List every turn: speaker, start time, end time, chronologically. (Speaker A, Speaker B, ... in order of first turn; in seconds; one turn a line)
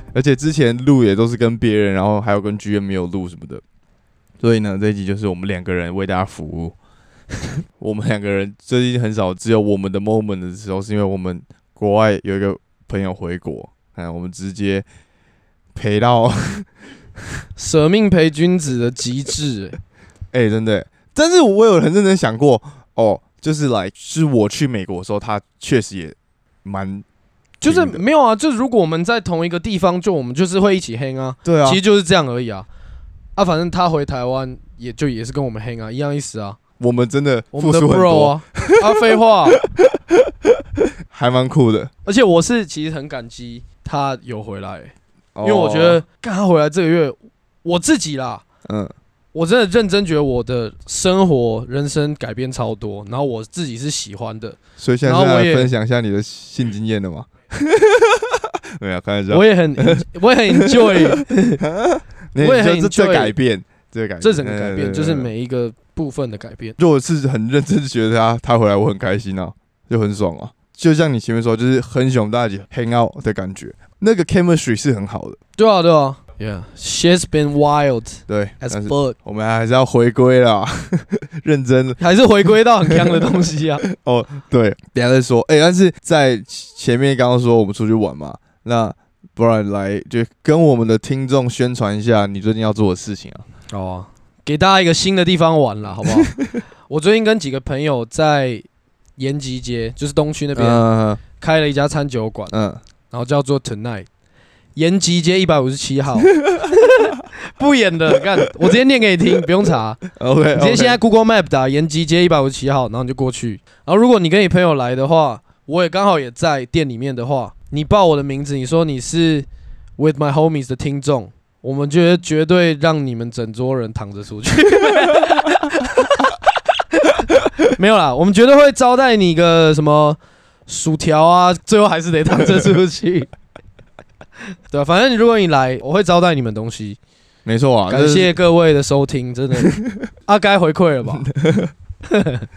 Speaker A: 0.1-3.6
Speaker A: 4.4-6.7
Speaker A: 7.3-14.8
Speaker A: 15.7-16.7
Speaker B: 17.6-19.8
Speaker A: 20.3-27.0
Speaker B: 27.6-32.7
Speaker A: 27.6-28.0
Speaker A: 31.4-31.8
Speaker B: 33.4-36.6
Speaker A: 36.8-40.5
Speaker B: 37.5-39.6
Speaker A: 41.1-41.9
Speaker B: 42.0-48.4
Speaker A: 45.3-46.0
Speaker A: 48.6-48.9
Speaker B: 49.3-55.7
Speaker A: 54.8-65.3
Speaker B: 59.3-61.6
Speaker B: 62.4-63.3
Speaker B: 64.2-66.8
Speaker A: 66.8-75.4
Speaker B: 75.6-79.2
Speaker A: 78.3-82.0
Speaker B: 82.0-83.8
Speaker A: 82.9-93.4
Speaker B: 93.7-96.3
Speaker A: 96.0-96.5
Speaker B: 96.9-98.6
Speaker B: 99.2-102.5
Speaker A: 100.5-101.2
Speaker A: 102.5-102.8
Speaker B: 103.1-104.1
Speaker B: 104.7-110.0
Speaker A: 106.3-106.8
Speaker A: 110.1-111.0
Speaker B: 110.5-119.5
Speaker B: 120.0-126.4
Speaker B: 126.9-133.3
Speaker A: 132.4-132.7
Speaker B: 134.7-137.0
Speaker A: 137.4-138.3
Speaker B: 137.9-139.7
Speaker A: 139.6-140.1
Speaker B: 140.3-141.3
Speaker A: 141.1-141.7
Speaker B: 142.1-142.4